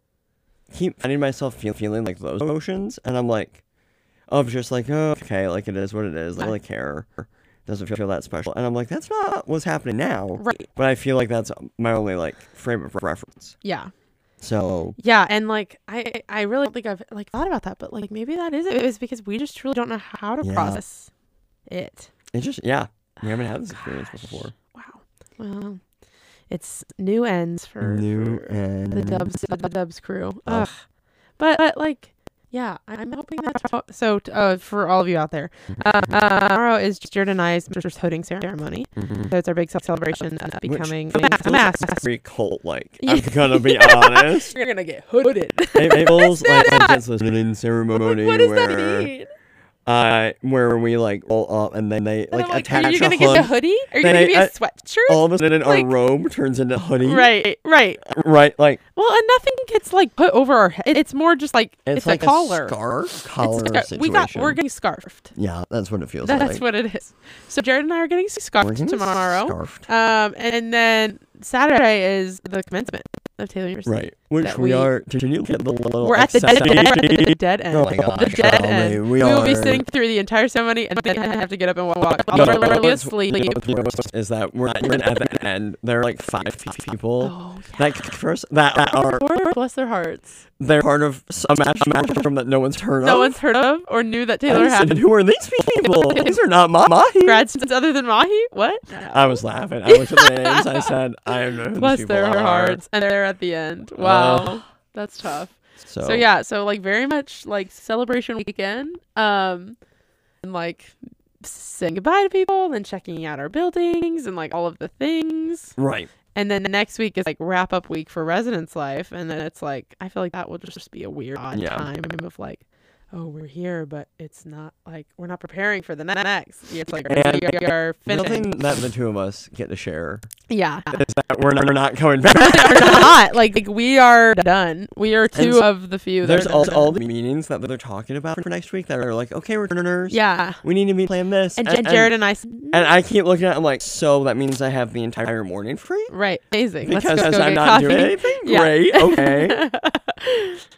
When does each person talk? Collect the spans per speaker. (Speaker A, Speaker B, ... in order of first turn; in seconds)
Speaker A: 0.7-3.6, 4.3-13.6, 14.4-15.0, 20.4-20.8, 22.3-24.5, 27.8-29.3, 39.0-39.3, 40.6-44.5, 45.7-49.1, 49.9-54.5, 55.1-57.3, 58.0-58.8, 61.9-64.6, 65.3-66.6, 68.6-69.9, 73.8-79.8, 82.3-89.2, 90.6-93.3, 94.5-97.5, 99.1-102.8, 104.0-104.6, 105.8-106.2, 115.8-116.1, 121.5-121.9, 127.1-130.3, 130.9-133.2, 135.3-135.7, 136.2-142.1, 142.7-146.1, 146.8-149.6
Speaker B: 10.4-10.7, 13.6-13.9, 15.0-21.1, 21.7-22.1, 23.7-25.8, 26.5-30.8, 31.4-42.0, 43.0-47.0, 48.0-49.3, 52.3-55.9, 57.0-58.0, 58.9-62.8, 63.4-65.3, 66.2-74.9, 76.0-83.9, 87.2-87.8, 88.9-90.4, 93.0-95.0, 95.8-96.4, 97.2-100.9, 101.7-109.8, 110.4-115.8, 116.3-128.5, 130.5-131.0, 132.3-136.9, 140.1-140.6, 141.6-142.9, 146.1-150.6